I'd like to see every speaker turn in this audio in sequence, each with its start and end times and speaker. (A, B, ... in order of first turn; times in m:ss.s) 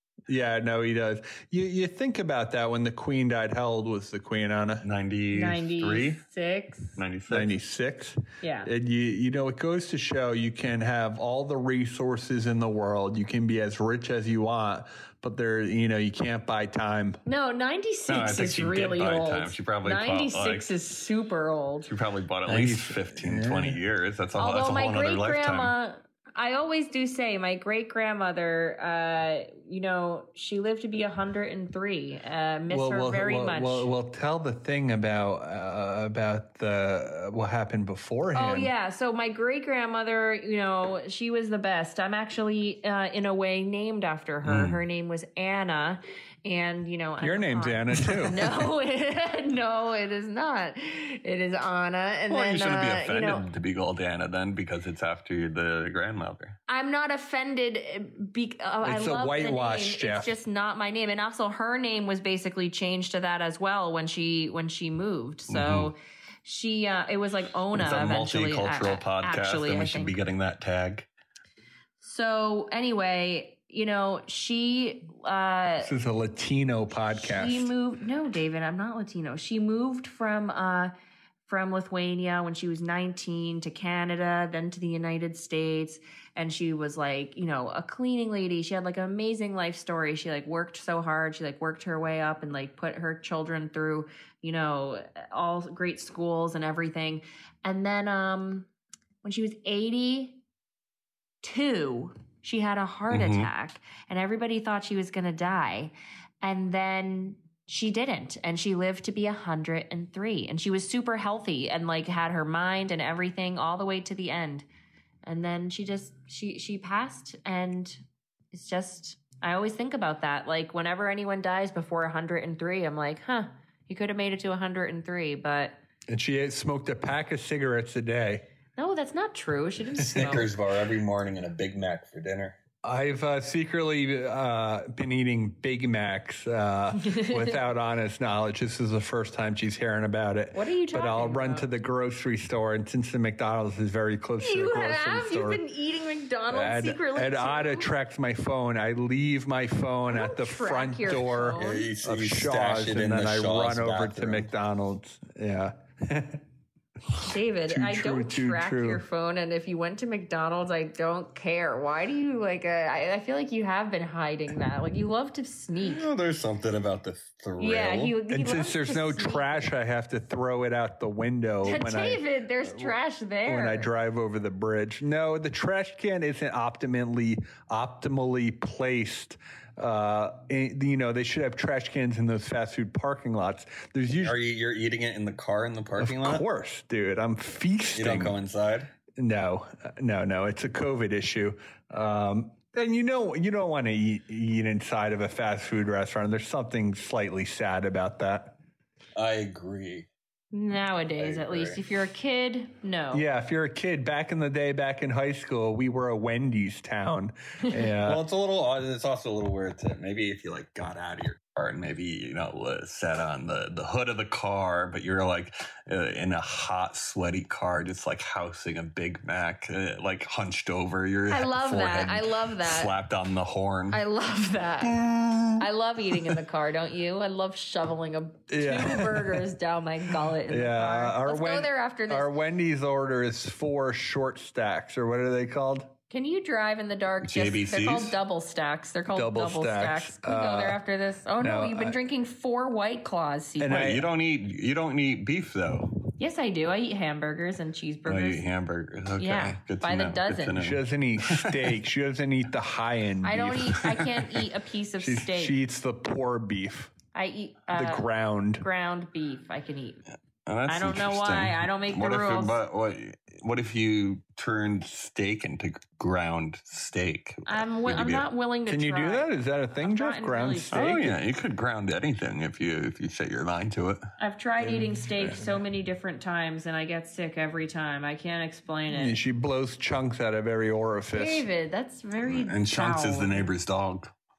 0:00.3-0:04.8 A
0:04.8-0:06.2 B
0:05.3-0:07.0 C
0:07.0-0:07.5 B
0:07.3-0:17.2 A
0:08.4-0:08.7 C
0:17.3-0:21.9 C
0:18.1-0:20.7 B
0:21.9-0:25.7 B
0:22.5-0:23.8 A
0:24.4-0:33.9 C
0:32.7-0:38.7 A
0:38.4-0:53.5 C
0:44.4-0:44.8 B
0:47.2-0:48.5 A
0:52.3-0:56.6 B
0:56.7-1:10.2 C
0:58.8-1:00.4 A
1:05.5-1:05.9 B
1:07.7-1:11.1 B
1:12.0-1:15.9 C
1:15.8-1:17.7 A
1:17.1-1:20.9 C
1:21.5-1:38.7 C
1:39.2-1:40.4 C
1:41.4-1:54.7 C
1:43.1-1:43.5 B
1:55.2-1:58.0 C
1:58.5-2:05.8 C
2:06.1-2:08.4 A
2:08.8-2:10.5 C
2:10.1-2:10.4 A
2:10.1-2:12.6 B
2:12.8-2:25.6 A
2:17.0-2:17.5 C
2:20.5-2:21.7 C
2:24.4-2:27.9 C
2:26.5-2:36.4 A
2:30.1-2:31.9 C
2:31.6-2:34.5 B
2:37.2-2:46.1 C
2:37.2-2:39.0 A
2:45.8-2:48.2 B
2:47.6-2:49.7 C
2:48.3-2:53.0 A
2:51.6-2:53.9 C
2:53.5-3:04.4 A
3:04.2-3:06.4 B
3:06.0-3:08.4 A
3:07.9-3:08.9 B
3:09.2-3:18.6 A
3:19.2-3:20.1 B
3:20.5-3:23.3 C
3:21.2-3:21.8 B
3:23.1-3:28.2 A
3:28.0-3:44.0 B
3:41.3-3:42.9 C
3:43.9-3:45.0 C
3:44.8-3:45.6 B
3:45.6-3:52.3 C
3:48.5-3:49.4 A
3:50.5-3:55.9 A
3:56.1-4:03.8 C
3:57.2-3:58.2 B
3:59.1-4:00.8 A
4:01.4-4:02.0 A
4:03.6-4:04.1 A
4:03.7-4:05.9 B
4:06.2-4:08.4 C
4:08.1-4:11.7 B
4:09.2-4:10.6 C
4:10.6-4:14.0 A
4:13.2-4:15.6 C
4:15.0-4:16.9 A
4:17.1-4:18.1 C
4:17.7-4:18.6 A
4:18.6-4:20.0 C
4:20.5-4:28.3 B
4:20.7-4:22.6 C
4:27.5-4:30.9 C
4:28.7-4:31.2 A
4:30.7-4:34.0 B
4:34.2-4:39.2 C
4:34.6-4:35.5 A
4:38.9-4:41.5 A
4:41.1-4:43.5 C
4:42.2-4:44.1 B